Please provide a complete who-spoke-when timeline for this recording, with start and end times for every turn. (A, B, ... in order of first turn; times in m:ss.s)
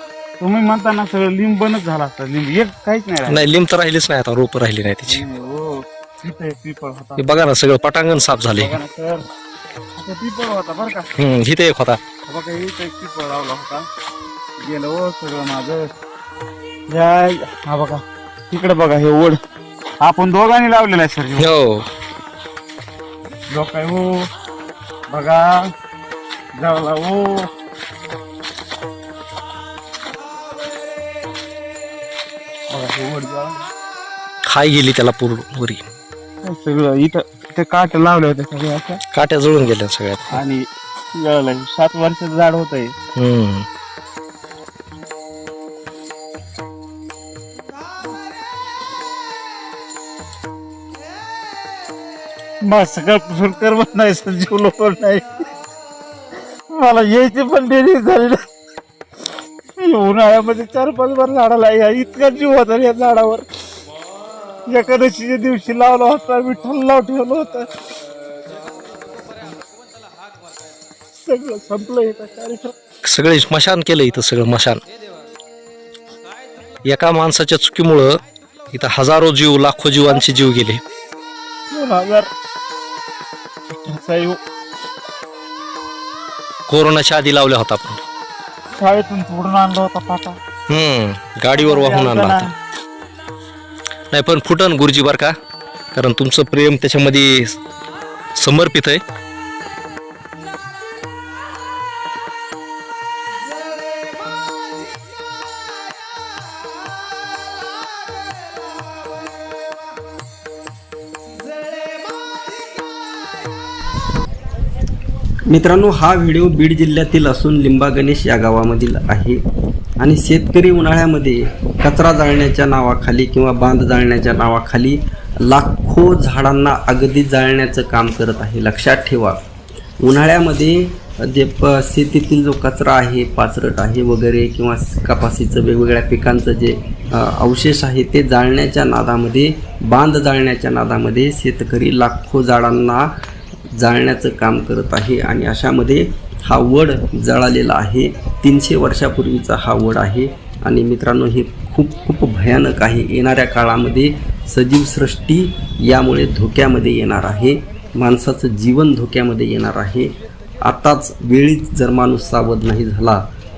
0:00.4-0:03.5 A
0:03.2-0:05.2 B
0:05.0-0:07.2 A
0:07.2-0:08.7 B
0:08.6-0:09.2 A
0:10.0-0:11.1 A
0:11.2-0:12.0 B
0:12.3-0:13.8 A
0:14.6-0:15.8 A
0:16.9-0:19.4 A
0:20.0-0:21.5 A
0:21.4-0:21.9 B
0:23.5-0:24.0 A
0:25.1-0:25.5 A
0:26.6-0:27.3 A
0:32.7-0:33.6 A
0:34.5-0:35.8 B
0:36.4-0:39.0 A
0:39.1-0:40.4 B
0:40.3-0:40.6 A
0:41.2-0:42.9 A
0:43.2-0:43.6 B
0:52.7-0:55.2 A
0:56.7-0:58.4 A
0:59.8-1:03.4 A
1:04.7-1:07.7 A
1:11.2-1:12.7 A
1:13.0-1:14.8 B
1:16.8-1:18.2 B
1:18.7-1:20.8 B
1:21.7-1:22.3 A
1:23.8-1:24.4 A
1:26.7-1:28.0 B
1:28.8-1:30.4 A
1:30.7-1:32.5 B
1:31.6-1:32.5 A
1:34.1-1:35.4 B
1:35.9-1:37.6 B
1:38.4-1:39.0 B
1:55.5-1:59.4 C
2:00.0-2:09.4 C
2:10.0-2:23.1 C
2:23.8-2:40.1 C
2:40.6-2:43.2 C